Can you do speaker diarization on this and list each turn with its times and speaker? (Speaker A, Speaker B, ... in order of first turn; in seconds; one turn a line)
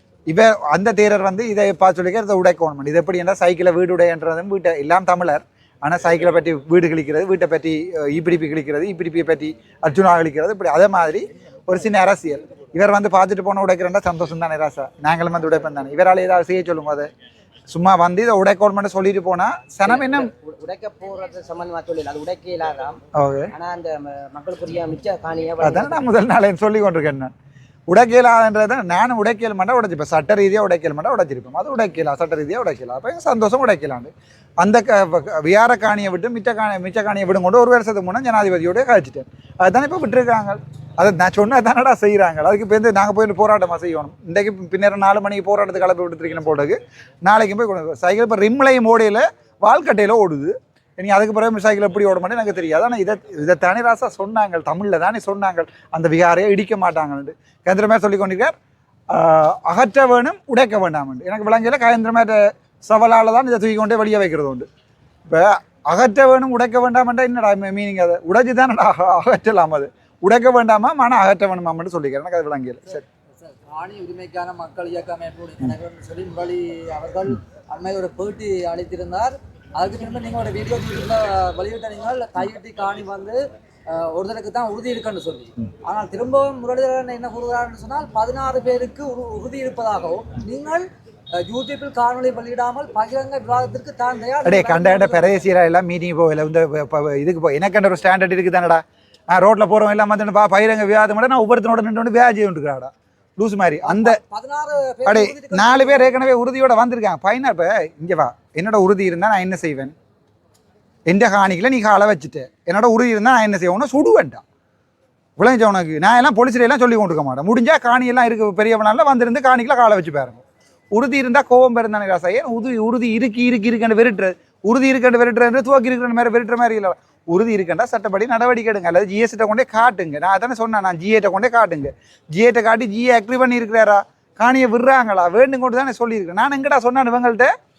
Speaker A: 0.3-17.1
Speaker A: 17.7-20.3
Speaker B: 19.8-23.0
Speaker A: 23.1-23.5
Speaker B: 23.5-26.0
Speaker A: 25.6-27.3
Speaker A: 27.9-58.5
Speaker A: 59.1-64.7
Speaker A: 65.3-73.0
Speaker C: 73.4-90.9
Speaker C: 91.4-95.4
Speaker A: 94.4-104.2
Speaker C: 103.8-106.3
Speaker A: 105.0-109.9
Speaker A: 111.1-114.4
Speaker A: 115.4-137.5